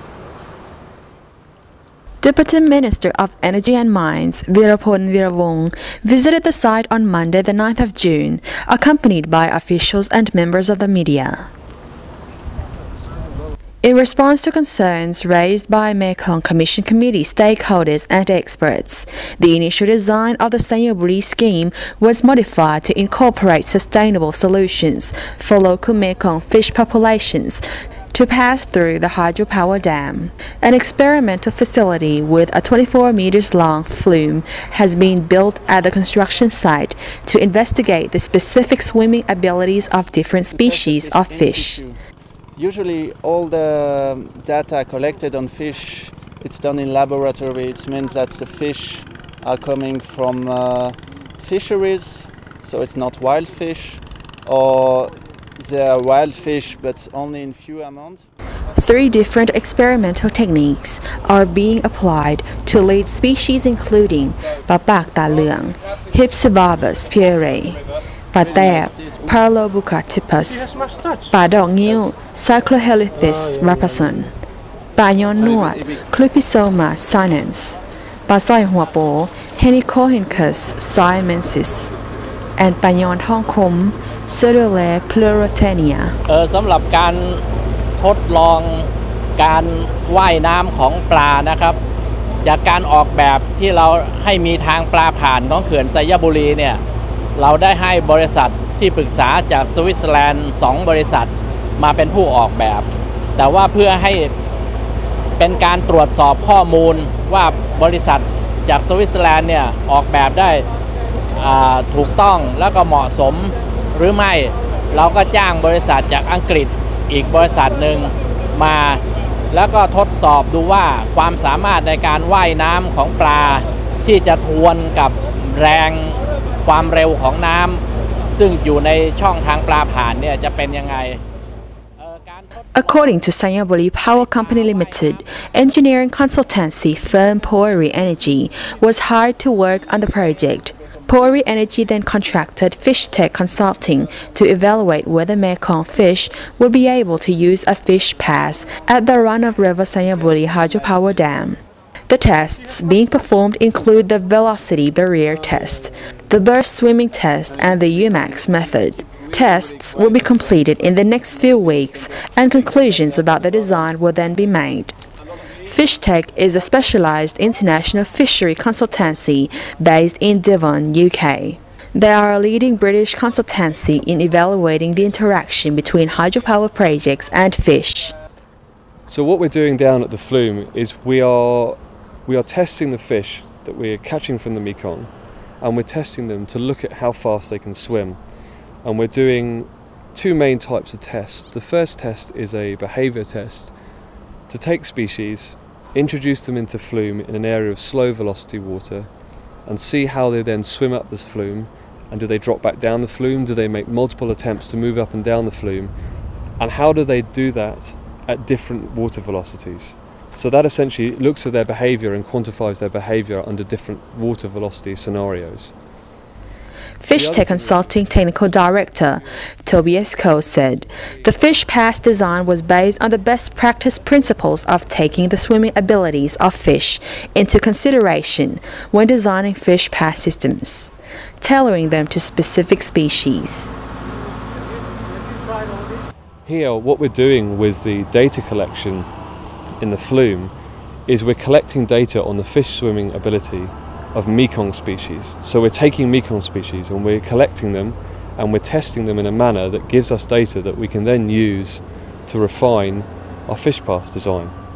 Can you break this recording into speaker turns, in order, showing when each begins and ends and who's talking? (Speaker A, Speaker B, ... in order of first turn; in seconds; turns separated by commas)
Speaker A: 2.2-11.5, Speaker A: 13.8-41.8, Speaker B: 40.5-42.0, Speaker B: 42.6-58.2, Speaker A: 58.8-67.8, Speaker A: 68.3-70.7, Speaker B: 68.4-69.5, Speaker B: 70.8-71.2, Speaker A: 71.3-74.3, Speaker A: 75.0-81.9, Speaker B: 75.4-76.0, Speaker A: 82.6-86.2, Speaker C: 86.3-87.4, Speaker C: 88.0-91.8, Speaker C: 92.4-96.8, Speaker C: 97.4-102.9, Speaker C: 103.4-104.3, Speaker C: 105.4-110.7, Speaker C: 111.4-119.0, Speaker C: 119.5-131.2, Speaker C: 132.0-133.1, Speaker A: 132.8-165.0, Speaker C: 134.4-135.2, Speaker B: 157.9-159.3, Speaker B: 161.4-162.3, Speaker B: 162.9-163.5, Speaker A: 165.6-178.2, Speaker D: 179.1-185.1, Speaker D: 185.6-188.2, Speaker D: 188.8-193.7, Speaker D: 194.5-199.1, Speaker D: 199.7-205.9, Speaker D: 206.6-215.7, Speaker A: 217.0-233.7, Speaker D: 217.1-217.8, Speaker D: 220.6-221.2, Speaker D: 236.4-239.1, Speaker D: 239.8-240.5, Speaker D: 241.1-254.5